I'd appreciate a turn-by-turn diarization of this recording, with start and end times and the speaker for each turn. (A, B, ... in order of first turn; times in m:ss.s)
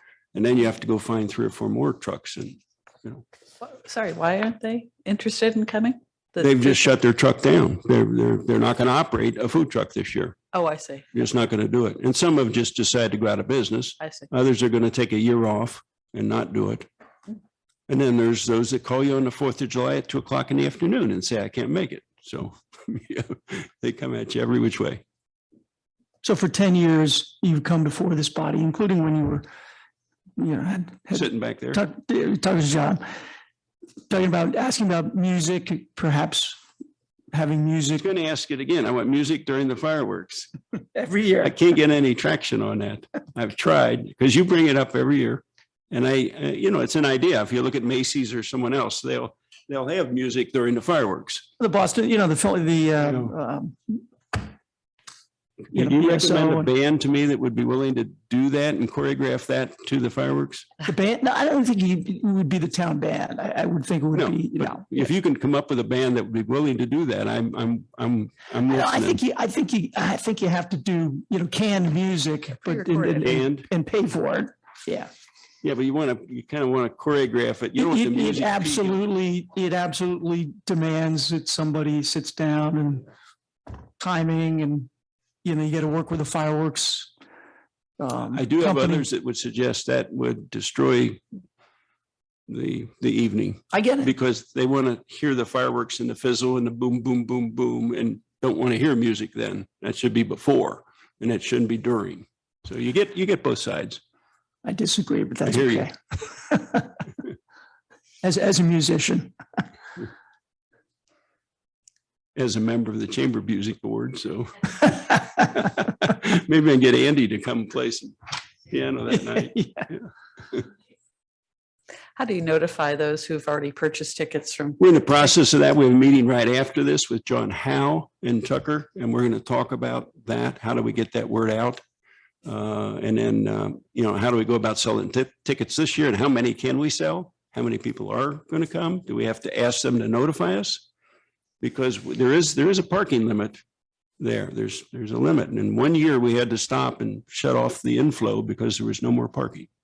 0:00.3-0:03.2 A
0:03.6-0:06.9 B
0:06.4-0:10.4 A
0:10.5-0:11.0 B
0:11.1-0:16.9 A
0:14.0-0:14.3 B
0:17.9-0:25.0 A
0:26.2-0:29.5 C
0:30.4-0:33.0 C
0:31.1-0:31.8 A
0:34.1-0:36.6 C
0:37.3-0:38.1 C
0:38.0-0:40.5 A
0:41.0-0:41.6 C
0:41.4-0:51.5 A
0:51.6-0:54.4 C
0:53.0-0:53.3 A
0:55.7-1:00.7 A
0:55.7-0:56.7 C
1:00.8-1:05.1 C
1:04.1-1:09.2 A
1:08.7-1:15.1 C
1:12.6-1:13.3 B
1:13.2-1:13.7 A
1:15.6-1:19.0 A
1:17.8-1:23.1 C
1:24.0-1:24.9 C
1:25.4-1:27.1 C
1:28.0-1:29.1 C
1:28.3-1:31.2 A
1:32.5-1:44.0 A
1:33.7-1:34.1 C
1:44.6-1:47.0 C
1:45.5-1:45.9 A
1:48.2-1:49.3 C
1:52.4-2:00.7 A
1:59.1-1:59.9 C
2:02.2-2:05.3 B
2:04.8-2:11.8 A
2:12.4-2:20.9 A
2:21.6-2:23.6 A
2:24.2-2:29.7 A